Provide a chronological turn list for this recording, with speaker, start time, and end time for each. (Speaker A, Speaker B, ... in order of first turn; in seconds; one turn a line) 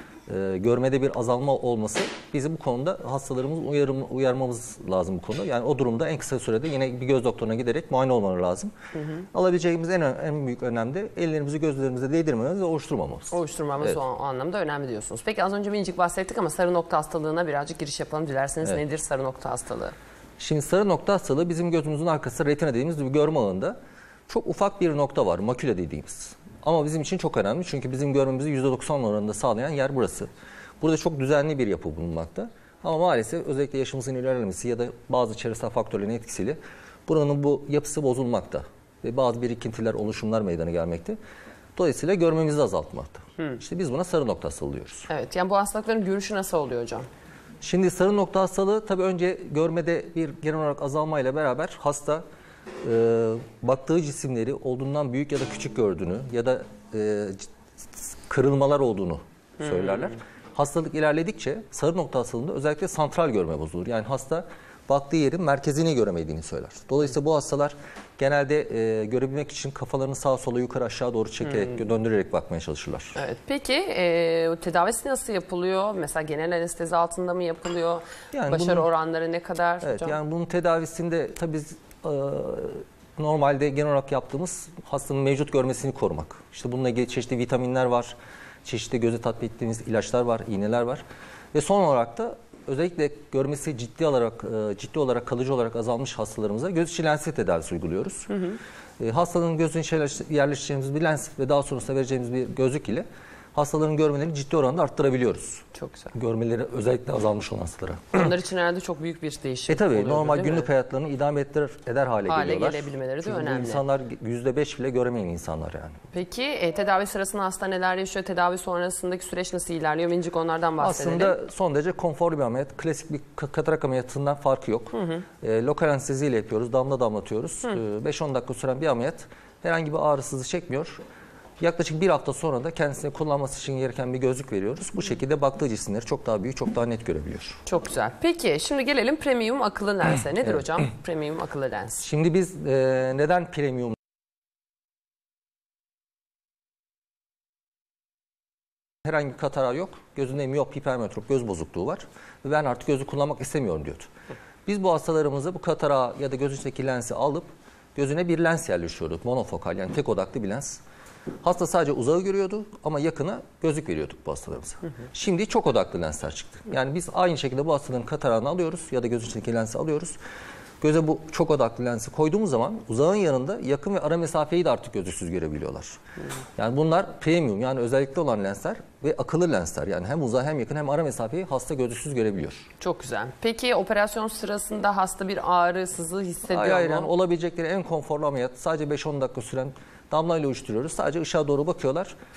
Speaker A: 0.3-8.7
Speaker B: 8.9-9.2
Speaker A: 9.3-14.0
Speaker B: 13.3-19.9
Speaker A: 20.4-23.8
Speaker A: 24.3-30.3
Speaker A: 30.8-41.2
Speaker A: 41.8-45.1
Speaker B: 45.1-47.0
Speaker A: 47.6-52.2
Speaker A: 52.8-73.2
Speaker B: 73.1-80.2
Speaker A: 78.3-78.9
Speaker A: 79.8-98.3
Speaker B: 98.3-98.6
Speaker A: 99.0-108.3
Speaker B: 105.7-106.1
Speaker B: 108.1-110.7
Speaker A: 109.7-116.0
Speaker B: 112.2-113.8
Speaker B: 116.1-121.3
Speaker A: 120.8-131.0
Speaker B: 124.9-125.2
Speaker A: 131.6-137.6
Speaker B: 137.7-142.1
Speaker A: 142.0-144.0
Speaker A: 149.0-154.1
Speaker A: 154.7-160.8
Speaker A: 161.4-170.2
Speaker A: 170.8-176.0
Speaker A: 176.6-182.7
Speaker B: 182.8-187.1
Speaker A: 186.5-192.2